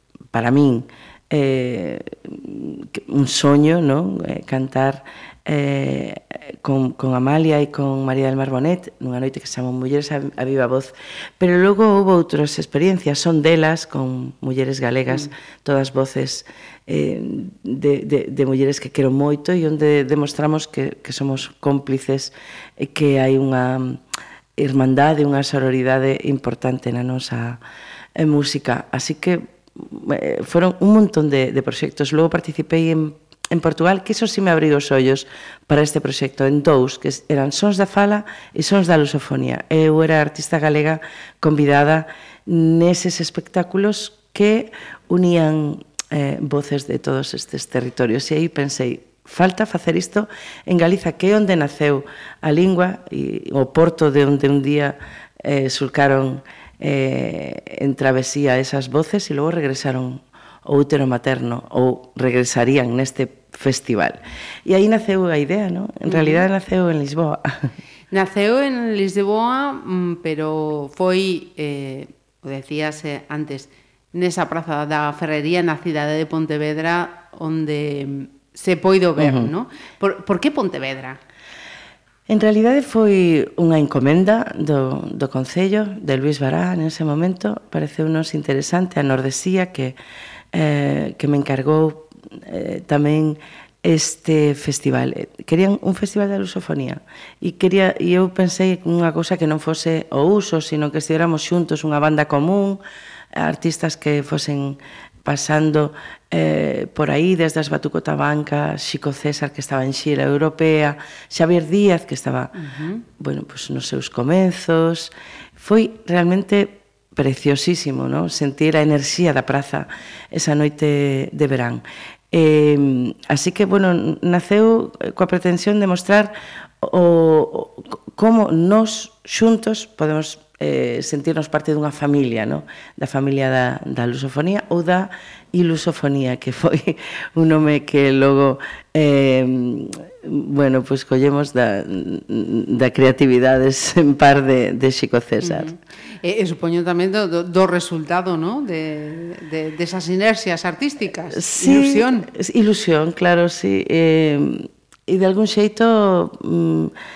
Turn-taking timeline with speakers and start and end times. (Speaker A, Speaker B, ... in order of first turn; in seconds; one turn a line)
Speaker A: 0.3-24.0
Speaker A: 24.6-27.6
Speaker A: 28.2-67.7
Speaker B: 66.1-66.4
Speaker B: 68.1-81.2
Speaker A: 79.2-79.5
Speaker A: 82.3-90.0
Speaker A: 90.5-102.8
Speaker A: 103.3-112.6
Speaker B: 112.6-113.0
Speaker A: 113.1-145.7
Speaker B: 145.4-152.3
Speaker A: 151.3-156.9